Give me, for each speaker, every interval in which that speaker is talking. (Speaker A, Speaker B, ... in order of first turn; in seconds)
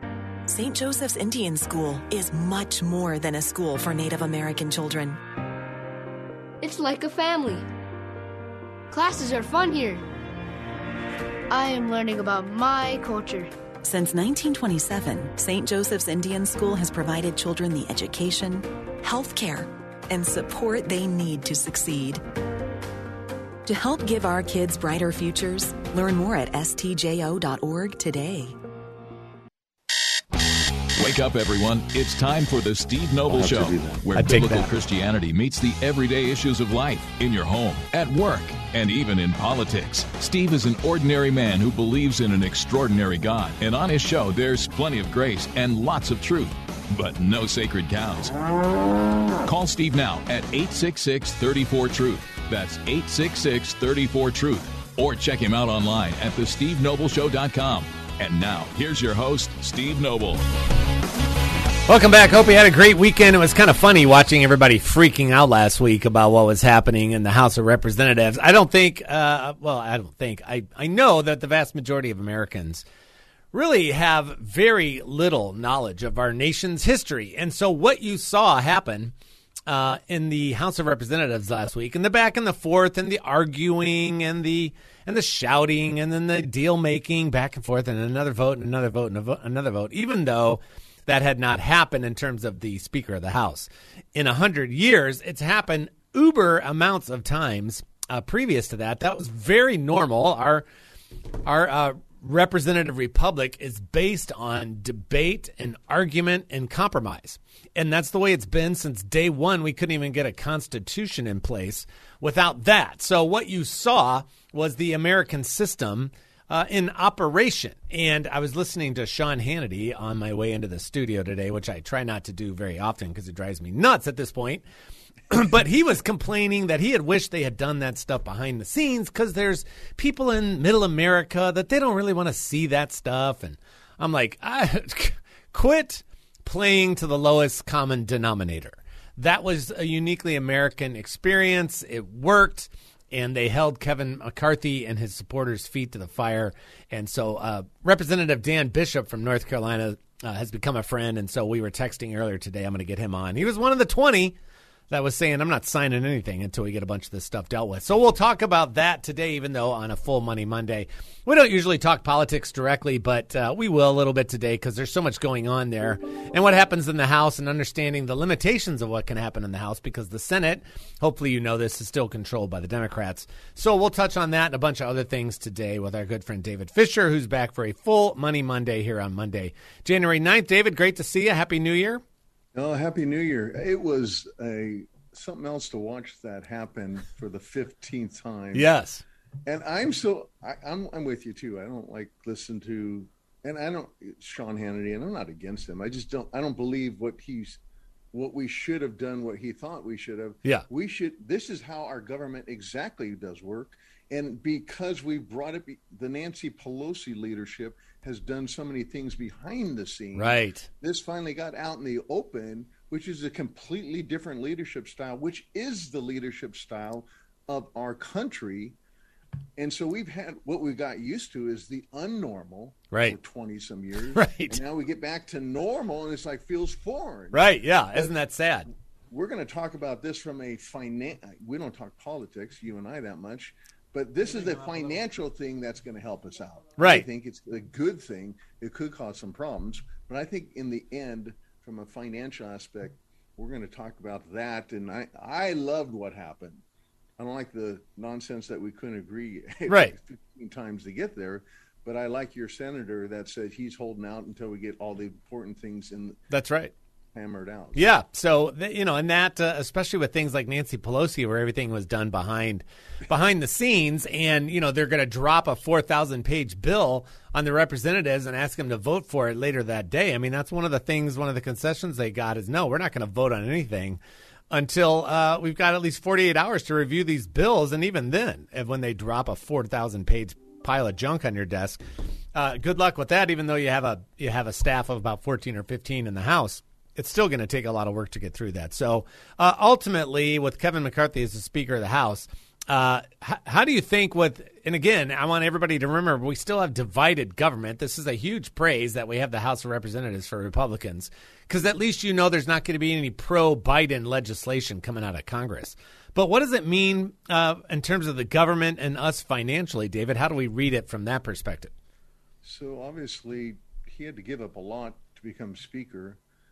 Speaker A: 0.5-5.2, 13.8-22.2, 23.6-28.6
Speaker B: 6.6-7.7, 8.9-10.0, 11.5-13.5
Speaker C: 30.9-48.3, 49.4-60.5
Speaker D: 34.1-34.7, 61.9-72.8, 73.5-79.1, 79.7-100.6, 101.4-124.6, 125.3-154.3, 154.9-182.0, 188.5-189.0, 210.1-210.7, 224.1-224.6, 227.3-228.7, 236.8-237.1, 249.7-249.9, 256.3-256.7, 257.8-274.0, 274.5-281.8, 282.3-311.7
Speaker E: 182.5-188.7, 189.4-197.6, 198.1-218.8, 219.6-228.1, 229.1-246.6, 247.2-256.2, 257.1-257.9, 312.4-316.2